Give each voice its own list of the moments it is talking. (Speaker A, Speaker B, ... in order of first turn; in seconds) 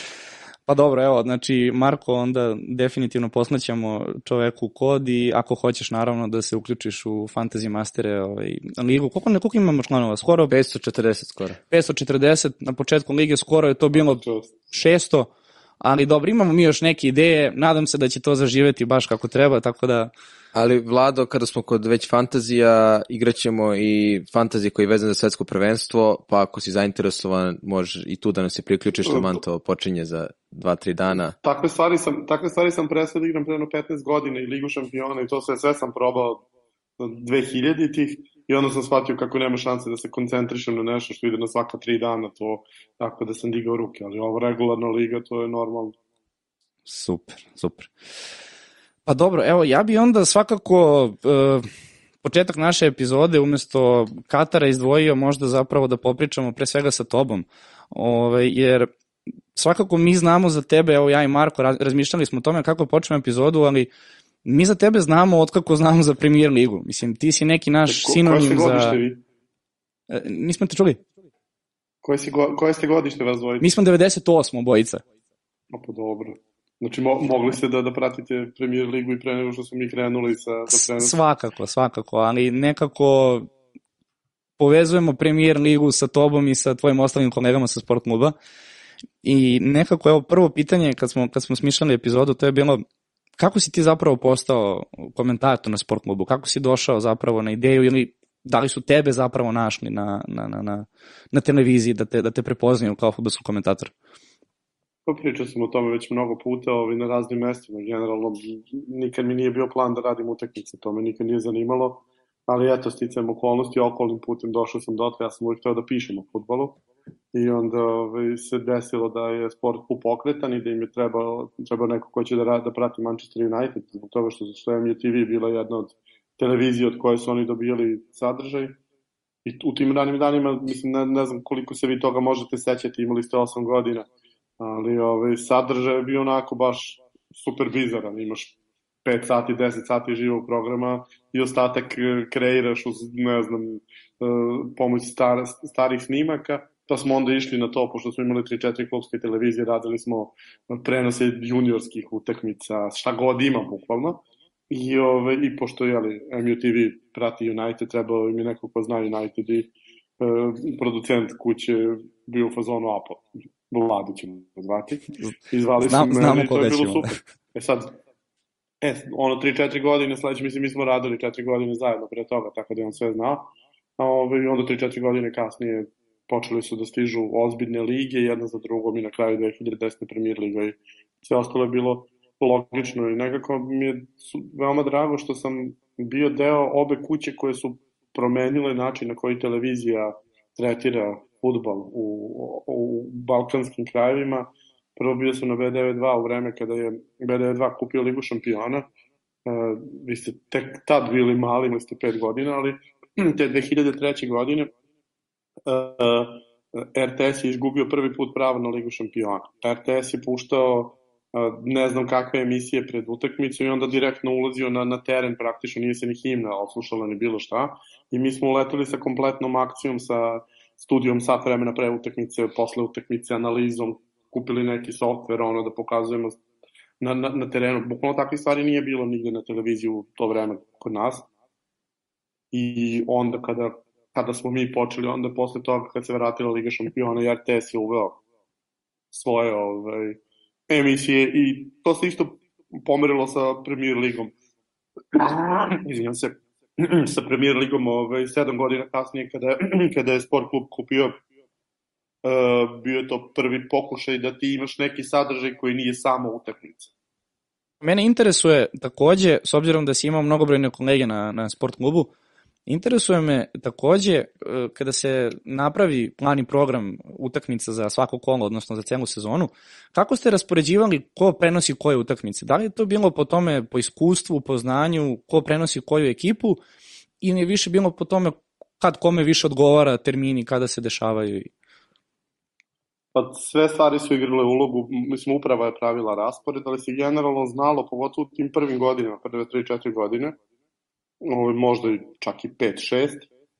Speaker A: 0.7-10.5, 11.7-15.3, 15.8-20.1, 46.9-47.9, 49.0-51.7, 52.2-58.9, 59.5-63.9, 64.4-69.0, 70.1-71.0, 73.6-75.0, 80.7-83.5, 84.6-88.3, 89.2-92.8, 93.4-103.9, 165.8-167.2, 257.8-262.1, 262.7-276.6, 277.2-281.5
Speaker B: 10.5-11.6, 20.5-31.4
Speaker C: 13.9-14.5, 31.4-36.4, 37.0-45.9, 67.9-69.2, 72.0-73.7, 75.7-81.2, 105.0-116.8, 117.3-128.8, 129.4-134.1, 134.6-168.0, 168.8-173.4, 174.0-198.9, 199.4-204.7, 205.7-226.4, 227.0-231.2, 232.5-238.2, 239.1-244.3, 245.1-251.2, 252.2-256.9, 283.1-290.4, 291.2-293.3